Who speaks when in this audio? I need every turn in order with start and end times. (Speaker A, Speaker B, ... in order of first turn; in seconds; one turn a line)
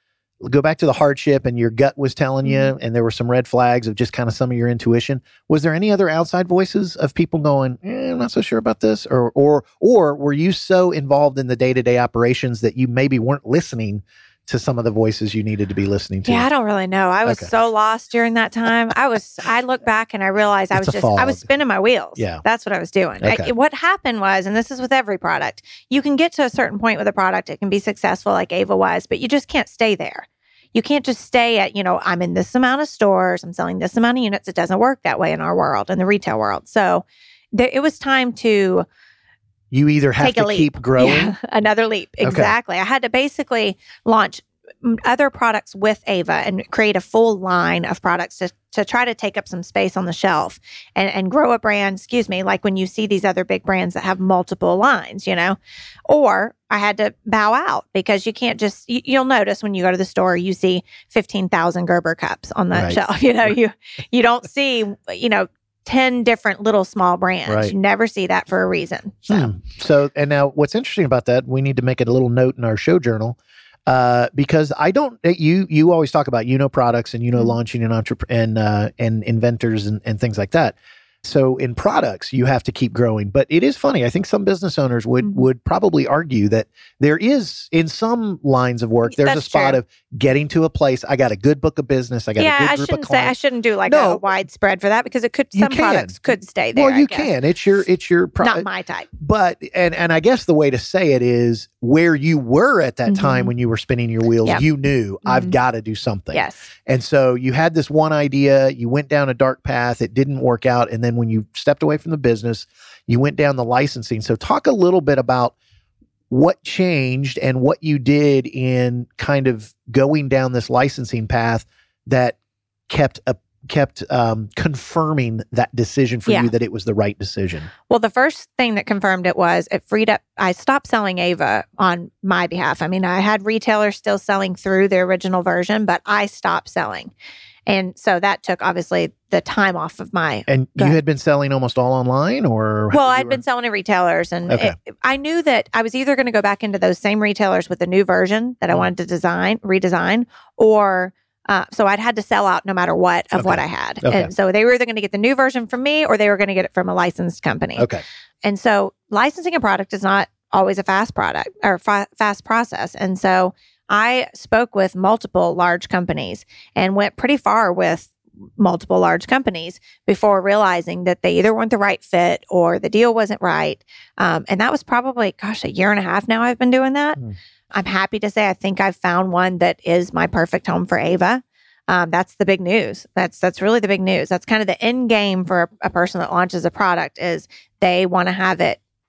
Speaker A: 0.4-16.5
Speaker B: 2.4-2.7
Speaker B: 16.2-38.9
Speaker A: 20.7-21.5
Speaker A: 22.2-22.4
Speaker A: 23.2-23.5
Speaker A: 39.7-41.4
Speaker B: 40.2-55.6
Speaker A: 42.2-42.5
Speaker B: 56.1-69.5
Speaker A: 62.7-63.0
Speaker A: 67.5-67.7
Speaker A: 69.3-94.2
Speaker B: 89.0-89.8
Speaker B: 92.4-97.3
Speaker A: 95.5-96.2
Speaker A: 96.7-98.7
Speaker B: 98.4-99.1
Speaker A: 99.2-115.5
Speaker B: 103.1-103.5
Speaker B: 105.2-105.5
Speaker B: 106.3-106.7
Speaker A: 116.3-122.3
Speaker A: 122.9-127.7
Speaker B: 126.3-126.5
Speaker B: 127.9-137.1
Speaker B: 137.7-141.0
Speaker A: 140.5-143.4
Speaker B: 142.9-157.9
Speaker A: 144.5-144.8
Speaker A: 153.3-154.3
Speaker A: 157.8-158.0
Speaker B: 158.4-177.2
Speaker B: 177.7-188.8